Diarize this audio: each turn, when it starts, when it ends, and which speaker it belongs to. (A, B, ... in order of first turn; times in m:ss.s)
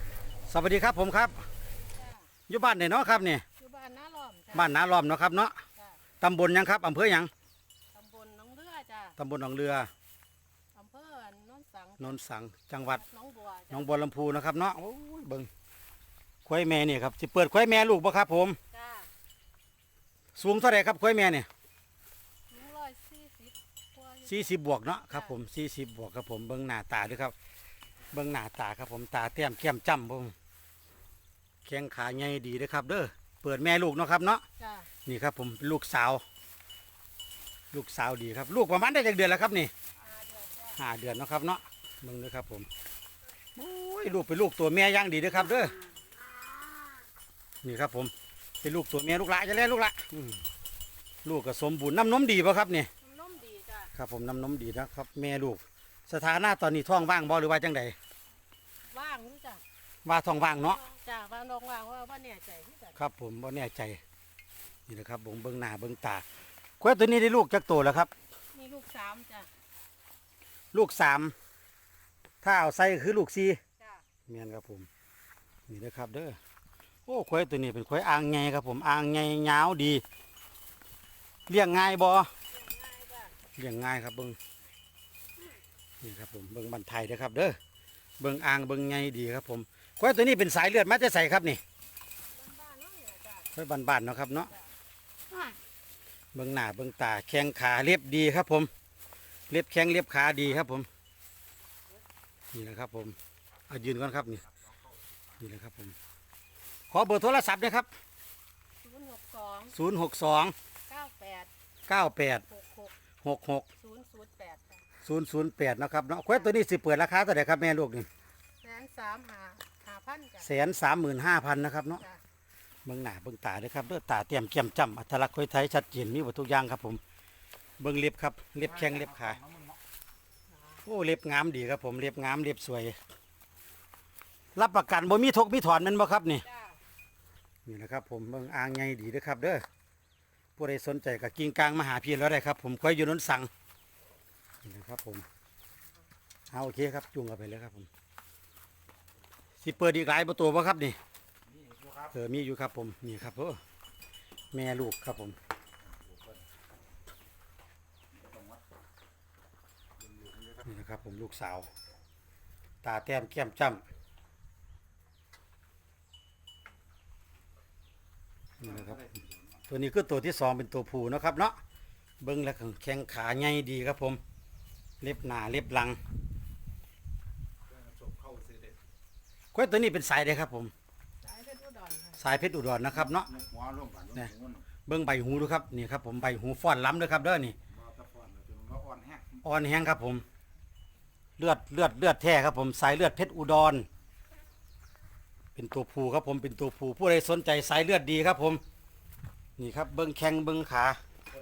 0:00.5-0:01.5 A
0:01.9-0:02.3 B
0:02.5-0:03.4 A
0:03.6-0:04.8 B
0:04.5-0:05.6 A
0:06.2-0:07.3 A
0:07.9-0:09.2 B
0:09.2-0:09.9 A
0:10.7-0:12.2 B
0:12.0-0:13.0 A
0:12.8-0:13.9 B
0:13.7-0:15.5 A
0:16.4-0:18.6 A
0:18.7-0:19.1 B
0:20.3-0:21.5 A
0:22.5-0:25.4 B
0:24.2-0:27.3 A
0:28.1-0:30.3 A
0:31.6-0:34.4 A
0:34.6-0:34.9 B
0:35.0-0:36.2 A
0:37.7-0:39.7 A
0:40.0-0:40.8 B
0:40.8-0:42.7 A
0:43.5-0:45.9 A
0:47.6-0:50.4 A
0:51.2-0:52.9 A
0:53.0-0:53.9 B
0:54.0-0:58.0 A
0:58.8-0:59.6 B
1:00.0-1:00.8 A
1:00.3-1:03.0 B
1:03.0-1:04.0 A
1:04.9-1:06.2 A
1:06.8-1:08.1 A
1:08.5-1:09.5 B
1:10.7-1:11.3 A
1:12.4-1:13.6 A
1:13.8-1:14.0 B
1:14.3-1:14.9 A
1:15.7-1:16.4 A
1:17.1-1:20.0 A
1:21.5-1:22.3 A
1:22.5-1:23.4 B
1:23.6-1:24.4 A
1:26.0-1:27.6 A
1:28.2-1:31.6 A
1:32.3-1:33.5 B
1:33.5-1:34.5 A
1:36.3-1:38.7 A
1:39.5-1:40.9 A
1:42.5-1:43.2 A
1:43.7-1:44.4 A
1:45.4-1:46.0 A
1:46.9-1:47.9 A
1:48.8-1:49.8 B
1:49.7-1:50.6 A
1:50.9-1:51.5 B
1:51.9-1:52.4 A
1:52.5-1:52.9 B
1:53.2-1:53.7 A
1:53.8-1:54.8 B
1:55.0-1:58.1 A
1:58.6-2:00.5 B
2:00.4-2:02.0 A
2:02.8-2:07.0 A
2:07.8-2:09.4 A
2:10.5-2:10.8 B
2:10.8-2:13.0 A
2:14.6-2:16.5 A
2:16.4-2:16.8 B
2:17.6-2:19.6 A
2:20.6-2:23.5 A
2:24.6-2:25.2 A
2:26.5-2:27.9 A
2:29.6-2:31.0 A
2:32.1-2:33.6 A
2:34.5-2:35.4 A
2:36.1-2:36.4 C
2:38.2-2:38.6 C
2:40.6-2:41.7 A
2:42.8-2:43.8 A
2:48.6-2:49.2 A
2:49.7-2:51.6 A
2:52.2-2:54.2 A
2:55.0-2:56.0 A
2:57.9-2:58.7 C
2:59.5-3:00.7 A
3:01.2-3:02.2 B
3:02.2-3:03.3 A
3:03.3-3:04.6 C
3:04.8-3:07.6 A
3:07.7-3:09.4 C
3:09.4-3:10.2 A
3:11.4-3:13.9 A
3:15.6-3:18.6 A
3:19.6-3:21.0 A